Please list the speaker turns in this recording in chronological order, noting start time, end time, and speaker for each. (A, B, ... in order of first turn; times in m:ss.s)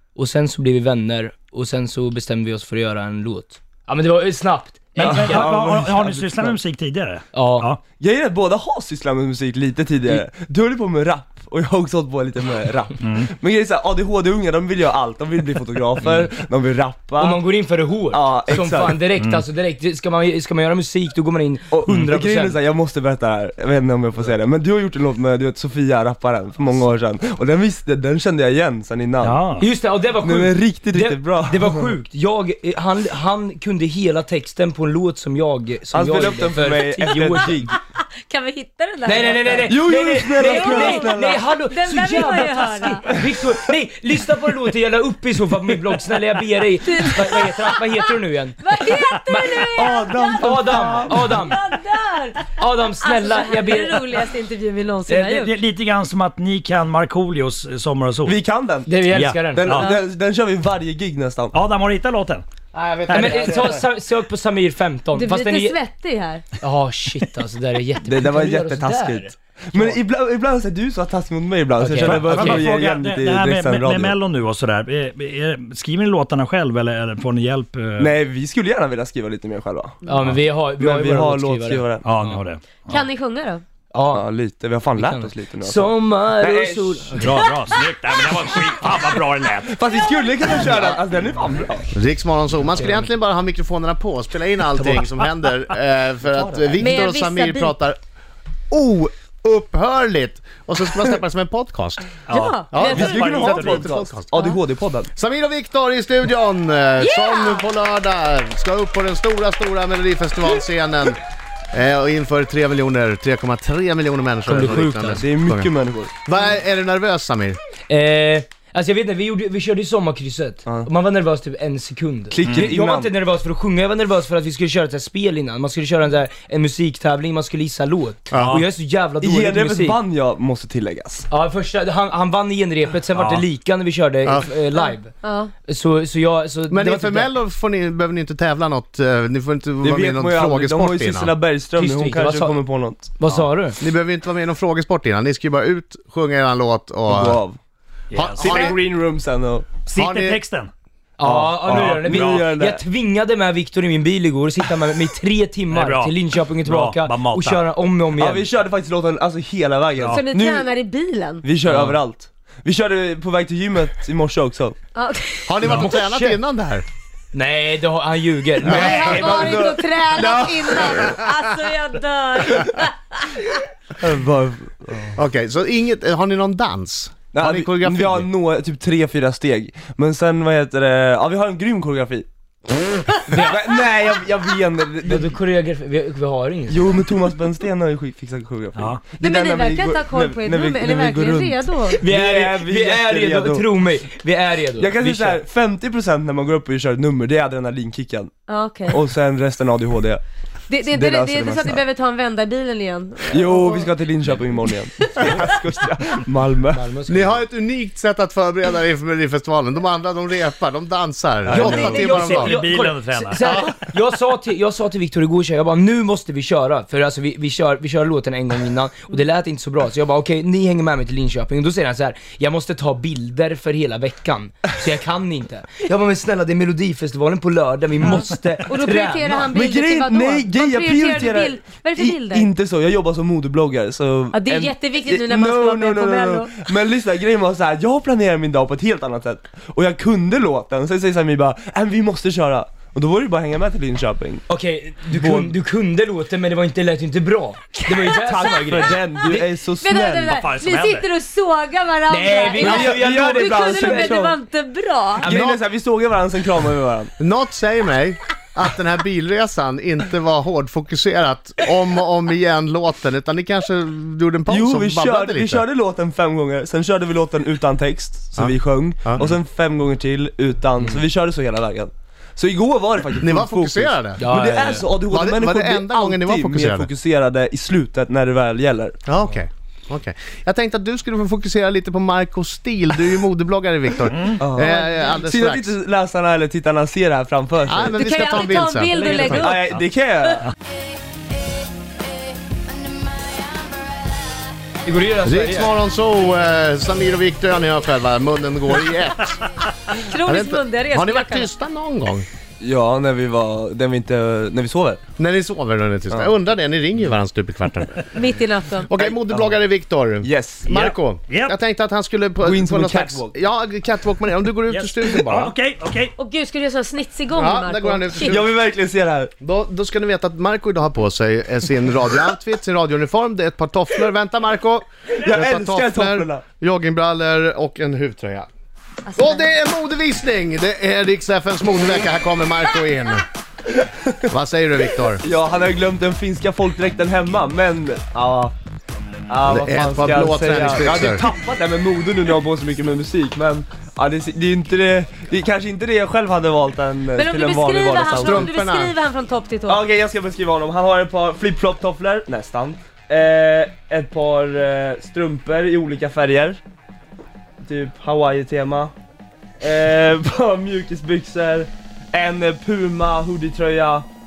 0:00.1-0:05.5 A
0:05.0-0:06.5 B
0:05.0-0:07.8 C
0:07.3-0:07.7 A
0:08.0-0:17.4 B
0:13.0-0:13.3 C
0:17.2-0:22.6 A
0:18.1-0:19.0 B
0:19.2-0:19.4 C
0:21.7-0:29.4 B
0:29.2-0:29.7 C
0:29.6-0:37.7 A
0:30.2-0:31.9 B
0:35.9-0:37.7 B
0:37.7-0:39.7 D
0:39.0-0:48.6 A
0:39.6-0:41.5 B
0:40.4-0:43.2 D
0:46.8-0:50.6 D
0:49.2-0:49.7 A
0:49.7-0:51.4 B
0:50.4-0:51.6 A
0:51.3-0:55.5 D
0:52.6-0:54.1 A
0:55.1-0:55.4 A
0:55.3-0:58.4 C
0:58.2-0:58.9 B
0:58.8-0:59.7 A
0:59.1-0:59.9 C
0:59.5-1:01.5 B
0:59.7-1:00.0 D
1:01.5-1:02.4 C
1:02.7-1:03.8 E
1:03.1-1:05.8 A
1:05.2-1:06.4 D
1:06.6-1:10.0 A
1:08.0-1:14.1 B
1:11.8-1:12.6 A
1:12.0-1:18.1 C
1:18.0-1:20.0 B
1:20.0-1:22.4 A
1:20.8-1:22.1 B
1:22.0-1:23.0 C
1:22.9-1:23.6 D
1:23.9-1:24.2 A
1:24.1-1:27.1 B
1:25.0-1:27.4 A
1:27.1-1:29.8 C
1:29.7-1:31.9 B
1:31.9-1:38.0 E
1:32.7-1:33.1 A
1:34.8-1:35.0 A
1:36.3-1:36.9 B
1:36.8-1:37.8 D
1:38.7-1:44.4 E
1:42.3-1:44.0 C
1:42.3-1:43.4 D
1:42.8-1:45.1 B
1:45.1-1:51.2 E
1:47.0-1:47.6 D
1:51.7-1:55.7 E
1:54.4-1:55.2 A
1:54.5-1:56.1 B
1:56.2-1:57.6 E
1:57.9-2:10.0 A
2:02.3-2:03.1 B
2:02.4-2:02.7 C
2:08.3-2:08.6 E
2:08.3-2:08.6 C
2:09.2-2:11.2 B
2:11.3-2:15.1 A
2:13.1-2:13.4 C
2:14.2-2:14.5 E
2:14.7-2:15.5 D
2:15.6-2:17.3 A
2:16.7-2:21.3 E
2:19.8-2:23.2 B
2:21.8-2:22.6 A
2:23.2-2:23.8 A
2:23.8-2:27.4 E
2:27.1-2:27.6 B
2:28.1-2:28.8 C
2:28.1-2:28.8 E
2:28.4-2:29.7 B
2:29.8-2:30.7 C
2:29.9-2:30.4 E
2:31.2-2:38.5 A
2:31.2-2:32.8 B
2:31.6-2:32.5 C
2:35.7-2:37.6 C
2:38.2-2:40.7 B
2:40.1-2:41.5 D
2:41.4-2:44.8 B
2:44.9-2:45.6 D
2:45.5-2:46.8 E
2:45.6-2:46.1 C
2:47.3-2:49.3 A
2:48.6-2:50.8 B
2:48.7-2:49.5 E
2:48.7-2:53.3 D
2:50.1-2:51.5 E
2:54.0-2:55.2 B
2:55.2-2:58.3 E
2:57.3-3:02.3 B
3:03.3-3:03.6 A
3:03.4-3:05.3 B
3:05.0-3:07.0 A
3:06.7-3:13.7 B
3:08.8-3:09.0 C
3:09.2-3:12.0 D
3:12.0-3:15.4 A
3:14.8-3:18.3 B
3:18.5-3:19.0 D
3:18.9-3:20.2 B
3:20.7-3:23.9 D
3:20.9-3:21.8 B
3:23.3-3:26.8 B
3:26.7-3:27.4 A
3:27.1-3:32.6 E
3:31.4-3:33.6 C
3:31.5-3:49.5 A
3:48.6-3:52.5 D
3:49.5-4:04.4 B
3:54.3-3:56.7 D
4:04.5-4:09.5 A
4:05.1-4:05.5 B
4:07.8-4:08.1 D
4:08.2-4:10.4 B
4:09.7-4:15.3 D
4:10.3-4:11.1 C
4:12.1-4:14.2 A
4:12.5-4:14.4 B
4:15.2-4:15.5 A
4:15.2-4:17.1 B
4:15.3-4:15.6 E
4:17.2-4:25.6 E
4:24.5-4:39.0 B
4:28.4-4:29.2 E
4:33.2-4:34.2 E
4:34.2-4:34.9 A
4:35.0-4:36.9 E
4:39.0-4:45.7 E
4:44.1-4:44.4 C
4:44.4-4:48.4 B
4:47.7-4:49.6 E
4:47.9-4:49.6 D
4:48.9-4:49.4 A
4:49.0-4:50.5 B
4:53.0-4:53.6 D
4:54.8-4:55.7 A
4:55.2-4:59.4 E
5:00.0-5:01.5 D
5:00.2-5:02.2 E
5:02.6-5:05.0 B
5:05.2-5:08.0 E
5:06.1-5:06.3 B
5:08.1-5:08.9 D
5:08.8-5:15.5 E
5:09.0-5:09.6 B
5:10.2-5:10.7 B
5:10.7-5:11.6 C
5:12.4-5:13.4 B
5:14.7-5:16.1 C
5:16.2-5:18.4 D
5:17.3-5:18.4 E
5:18.2-5:19.3 B
5:19.4-5:28.5 E
5:25.1-5:26.4 B
5:29.1-5:29.4 D
5:29.2-5:33.2 E
5:34.3-5:35.2 E
5:35.1-5:38.5 B
5:39.3-5:48.5 B
5:39.4-5:41.2 E
5:47.1-5:49.8 D
5:48.1-5:48.9 E
5:49.6-5:56.6 B
5:57.6-5:58.9 B
5:59.6-6:04.0 B